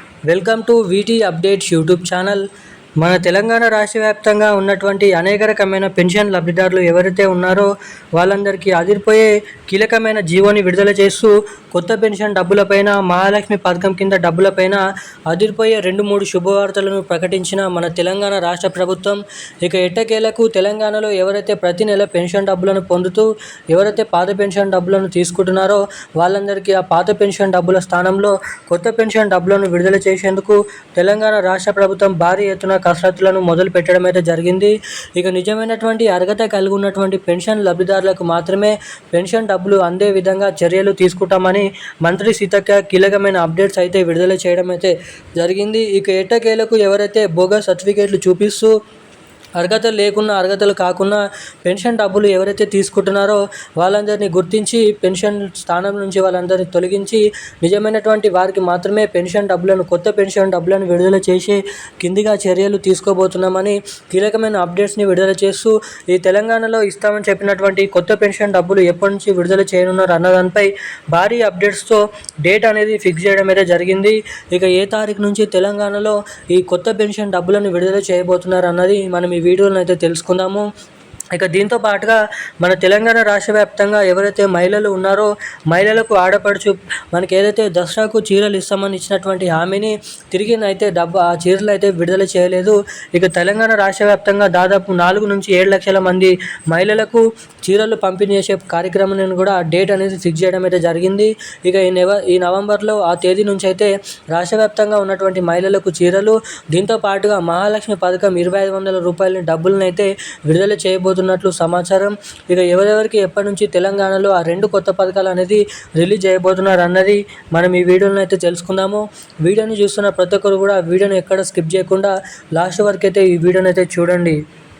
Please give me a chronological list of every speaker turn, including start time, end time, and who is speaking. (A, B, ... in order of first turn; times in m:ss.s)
0:00.3-0:02.5 A
0:03.0-0:48.7 A
0:49.6-1:20.7 A
1:21.3-2:04.4 A